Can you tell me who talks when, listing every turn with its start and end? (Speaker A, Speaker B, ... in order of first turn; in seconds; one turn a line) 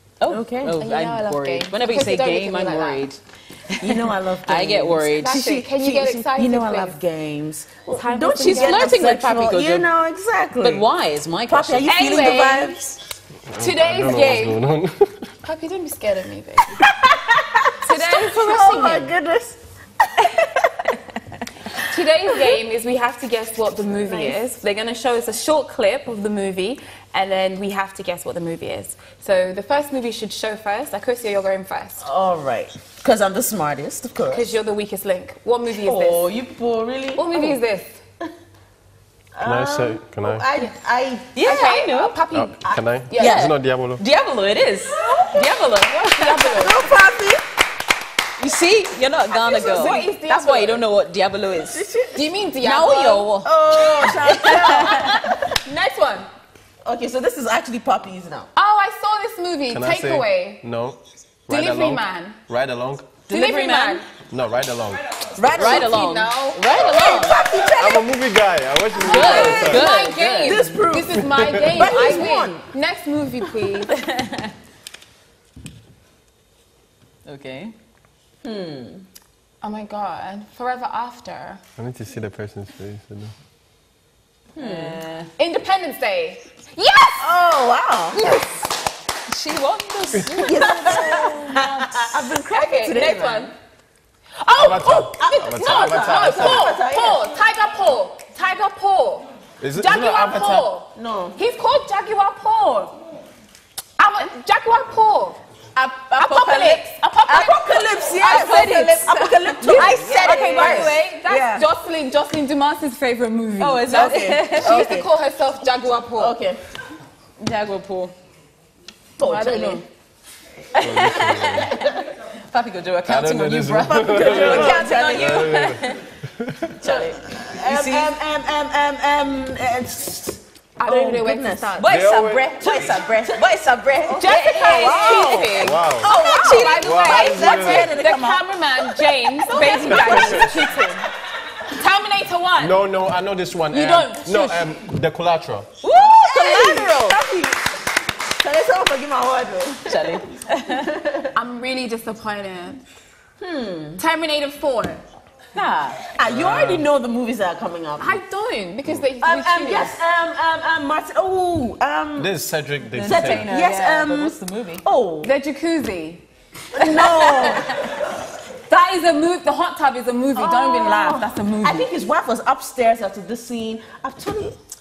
Speaker A: 0.2-5.4
Speaker B: 0.3-0.8
Speaker C: 0.7-3.0
Speaker B: 3.8-10.9
Speaker C: 5.2-7.0
Speaker C: 7.9-9.1
Speaker A: 8.3-9.9
Speaker A: 10.6-12.0
Speaker B: 11.5-13.0
Speaker C: 11.8-12.8
Speaker D: 13.5-15.3
Speaker C: 13.6-14.6
Speaker C: 15.4-16.8
Speaker B: 16.8-20.7
Speaker C: 17.8-19.1
Speaker C: 21.7-32.1
Speaker B: 24.0-24.4
Speaker B: 32.0-34.5
Speaker C: 34.3-36.3
Speaker B: 35.7-37.6
Speaker C: 37.1-38.0
Speaker B: 39.3-41.3
Speaker D: 39.4-40.5
Speaker A: 41.3-42.2
Speaker C: 41.4-43.5
Speaker D: 42.3-44.0
Speaker B: 43.1-43.4
Speaker A: 43.2-46.6
Speaker B: 45.0-45.5
Speaker C: 45.8-47.0
Speaker B: 46.2-47.4
Speaker A: 48.4-51.9
Speaker C: 49.3-50.8
Speaker B: 49.5-50.1
Speaker B: 51.7-52.3
Speaker C: 52.1-56.3
Speaker A: 52.6-55.2
Speaker B: 53.0-55.5
Speaker B: 56.8-58.5
Speaker C: 58.5-60.6
Speaker D: 59.7-63.1
Speaker C: 61.5-62.4
Speaker A: 63.3-64.0
Speaker C: 63.3-64.0
Speaker D: 64.3-65.0
Speaker B: 65.4-65.9
Speaker A: 65.4-67.5
Speaker C: 65.4-67.2
Speaker B: 66.7-68.1
Speaker D: 67.7-69.9
Speaker B: 68.9-69.8
Speaker A: 69.0-70.6
Speaker C: 69.0-73.9
Speaker B: 70.4-72.6
Speaker D: 71.1-71.8
Speaker A: 73.9-74.5
Speaker A: 77.2-77.7
Speaker B: 78.4-79.0
Speaker C: 79.6-81.6
Speaker D: 81.8-83.3
Speaker B: 84.5-85.0
Speaker A: 84.6-85.3
Speaker C: 85.4-87.3
Speaker B: 87.2-88.4
Speaker C: 88.1-88.7
Speaker A: 89.3-92.1
Speaker B: 90.4-93.5
Speaker C: 90.5-91.3
Speaker C: 92.3-93.5
Speaker C: 94.4-102.9
Speaker D: 94.5-96.7
Speaker B: 95.1-97.2
Speaker D: 99.6-100.7
Speaker B: 100.9-101.4
Speaker C: 104.0-105.4
Speaker A: 105.8-106.9
Speaker C: 106.2-116.4
Speaker B: 107.3-111.6
Speaker A: 108.2-110.9
Speaker A: 113.6-115.0
Speaker B: 113.8-115.0
Speaker B: 116.2-116.6
Speaker A: 117.4-118.1
Speaker B: 119.2-119.8
Speaker C: 119.2-119.8
Speaker A: 120.8-126.0
Speaker D: 120.8-121.8
Speaker D: 123.0-126.7
Speaker B: 123.8-125.6
Speaker A: 126.7-128.1
Speaker B: 126.8-131.8
Speaker C: 130.8-131.9
Speaker A: 131.8-138.4
Speaker D: 131.8-132.6
Speaker B: 132.5-138.3
Speaker C: 134.1-141.1
Speaker D: 135.6-136.1
Speaker D: 136.8-137.9
Speaker B: 139.2-140.6
Speaker A: 139.4-140.2
Speaker D: 139.8-140.6
Speaker C: 141.7-142.8
Speaker D: 142.6-145.7
Speaker C: 143.7-144.8
Speaker A: 145.8-147.5
Speaker B: 146.0-147.4
Speaker B: 148.4-150.2
Speaker A: 149.9-150.9
Speaker B: 150.9-151.3
Speaker C: 151.3-152.8
Speaker B: 153.4-154.0
Speaker C: 154.0-155.0
Speaker A: 155.5-156.1
Speaker B: 156.2-158.2
Speaker D: 156.2-156.8
Speaker C: 158.0-160.0
Speaker B: 159.2-162.3
Speaker D: 162.2-163.5
Speaker A: 162.8-164.8
Speaker B: 163.0-165.3
Speaker C: 165.2-167.9
Speaker B: 166.7-167.7
Speaker C: 168.7-171.9
Speaker B: 170.3-174.6